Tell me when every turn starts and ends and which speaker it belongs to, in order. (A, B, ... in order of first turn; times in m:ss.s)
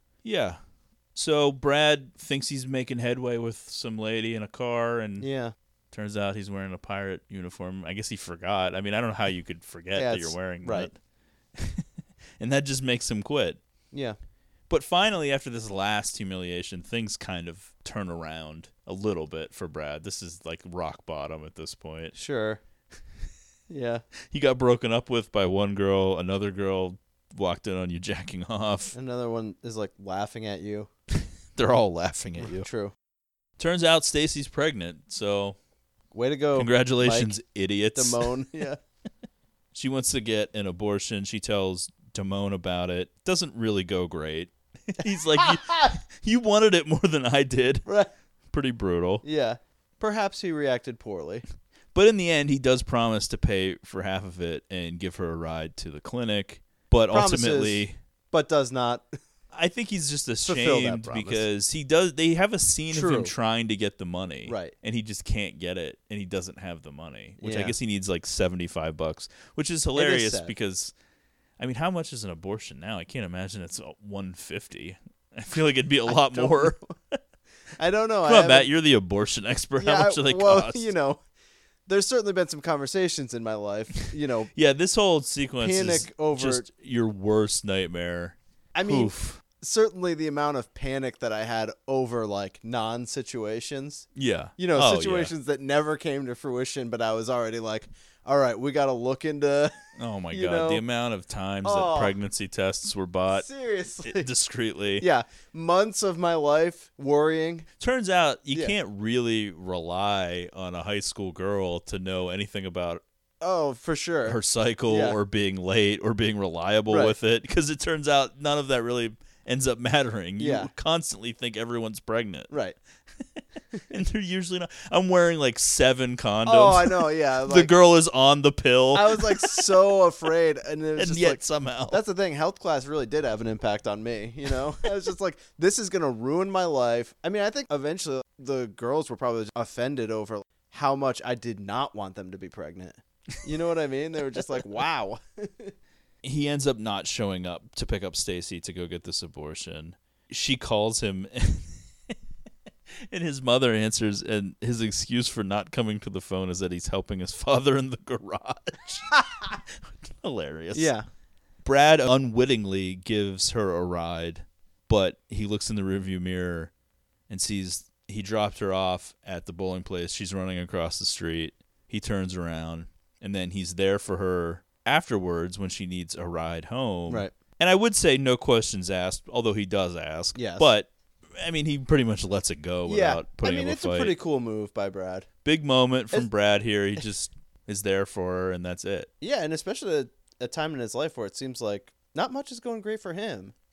0:00.2-0:00.6 A
0:01.1-0:05.3 A
0:05.2-0:05.5 B
0:05.9-0:11.0 A
0:09.9-0:10.9 B
0:11.6-0:11.8 A
0:12.4-0:13.6 A
0:13.9-0:14.2 B
0:14.7-0:22.1 A
0:22.1-0:22.6 B
0:23.7-0:24.0 B
0:24.3-0:28.9 A
0:28.9-0:30.9 B
0:31.1-0:32.7 A
0:32.4-0:32.9 B
0:33.6-0:35.6 A
0:36.1-0:37.3 B
0:36.6-0:38.3 A
0:37.9-0:38.8 B
0:39.7-0:47.9 A
0:45.4-0:45.9 B
0:47.8-0:48.1 B
0:48.5-0:49.2 A
0:49.2-0:51.4 B
0:51.9-0:58.0 A
0:57.1-0:59.1 B
0:59.5-1:10.9 A
1:00.4-1:01.4 B
1:02.9-1:03.3 B
1:04.4-1:04.7 B
1:07.4-1:07.8 B
1:09.9-1:10.5 B
1:11.6-1:16.8 A
1:16.1-1:16.9 B
1:17.8-1:18.7 B
1:18.2-1:20.9 A
1:19.8-1:21.2 B
1:21.9-1:24.5 B
1:24.5-1:29.4 A
1:25.6-1:26.7 B
1:28.7-1:34.1 B
1:34.1-1:35.3 A
1:34.6-1:39.7 B
1:40.0-1:43.5 A
1:40.3-1:40.8 B
1:41.6-1:42.2 B
1:43.3-1:44.3 B
1:44.0-1:45.0 A
1:45.0-1:47.7 B
1:47.8-1:53.0 A
1:53.4-1:55.2 B
1:54.2-2:02.5 A
1:56.9-1:57.1 B
2:00.4-2:00.7 B
2:02.5-2:02.8 B
2:03.9-2:09.6 A
2:06.4-2:07.7 B
2:08.9-2:25.7 B
2:11.0-2:12.0 A
2:26.2-2:31.8 A
2:33.1-2:39.1 A
2:39.9-2:40.9 A
2:40.7-2:41.0 B
2:41.6-2:46.7 A
2:47.3-3:04.2 A
2:57.1-2:57.3 B
3:00.3-3:00.7 B
3:02.8-3:05.3 B
3:05.4-3:09.1 A
3:09.2-3:13.6 B